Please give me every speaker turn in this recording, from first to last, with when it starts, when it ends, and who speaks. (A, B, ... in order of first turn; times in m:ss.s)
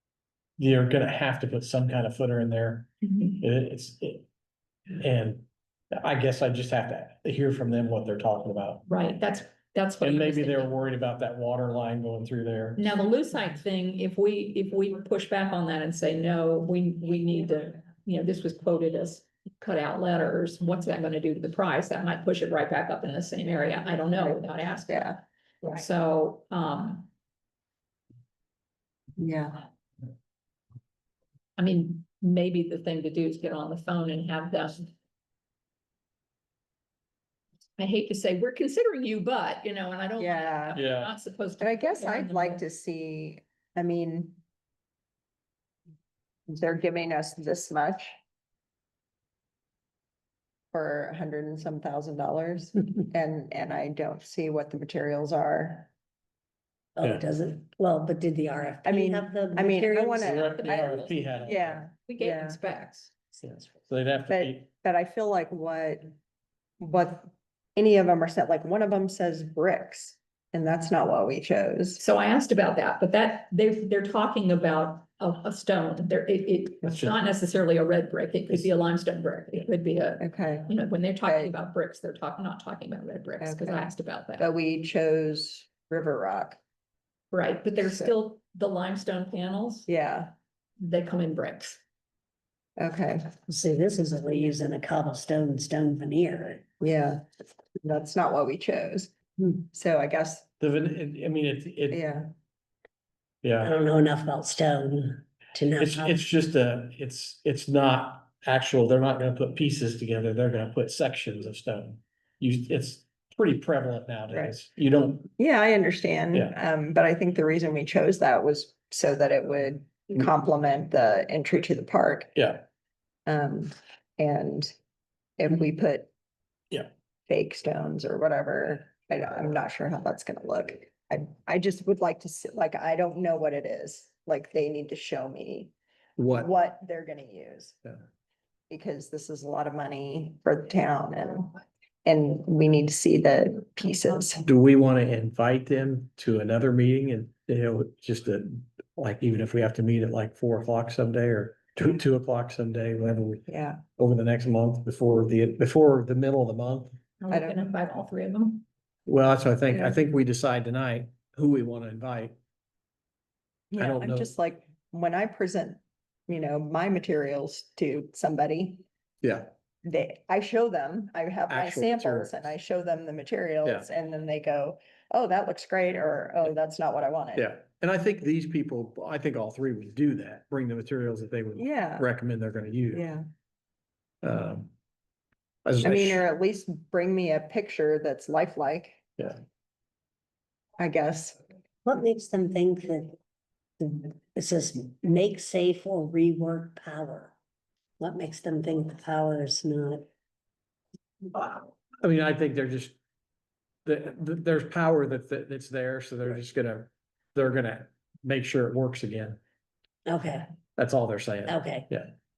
0:00.6-0:04.2 A
0:03.0-0:03.4 B
0:04.9-0:08.8 A
0:08.9-0:10.7 B
0:10.0-0:12.9 A
0:12.8-0:27.1 B
0:24.1-0:25.7 C
0:29.2-0:29.6 C
0:31.6-0:34.9 B
0:37.8-0:42.6 B
0:40.2-0:40.8 C
0:40.7-0:41.1 A
0:41.6-0:44.4 C
0:46.5-0:48.1 C
0:50.7-0:55.9 C
0:57.0-1:00.4 D
0:58.8-1:02.6 C
1:00.2-1:01.8 A
1:00.5-1:01.2 B
1:02.1-1:03.1 B
1:03.4-1:04.6 A
1:04.3-1:06.2 C
1:06.8-1:12.0 C
1:12.0-1:24.5 B
1:20.2-1:20.7 C
1:21.2-1:21.5 C
1:23.4-1:26.6 C
1:27.3-1:29.9 B
1:27.8-1:28.1 C
1:29.9-1:30.3 C
1:30.8-1:31.8 B
1:32.8-1:33.3 C
1:33.5-1:36.6 D
1:36.8-1:37.2 C
1:37.8-1:40.5 C
1:40.6-1:42.0 A
1:41.9-1:42.3 C
1:43.4-1:43.7 A
1:43.6-1:46.2 D
1:45.8-1:55.3 A
1:55.4-2:02.3 C
2:02.4-2:02.6 A
2:03.2-2:04.7 C
2:05.4-2:06.1 C
2:07.3-2:15.7 C
2:16.2-2:16.5 A
2:16.3-2:17.8 C
2:18.7-2:24.4 C
2:24.4-2:33.4 A
2:33.5-2:33.8 C
2:34.0-2:37.0 A
2:37.2-2:38.6 B
2:37.3-2:37.6 C
2:39.0-2:42.4 A
2:43.7-2:48.8 C
2:43.8-2:44.3 A
2:49.2-2:49.5 A
2:49.8-2:57.5 C
2:51.5-2:52.5 A
2:57.4-3:03.1 A
3:01.6-3:02.1 C
3:02.9-3:03.2 C
3:04.2-3:04.7 A
3:05.6-3:06.2 A
3:05.8-3:09.0 C
3:10.8-3:11.4 C
3:11.8-3:13.2 D
3:13.8-3:17.3 D
3:18.0-3:20.0 D
3:21.3-3:23.0 A
3:23.8-3:29.4 A
3:30.0-3:30.5 D
3:30.8-3:32.1 A
3:31.4-3:31.9 D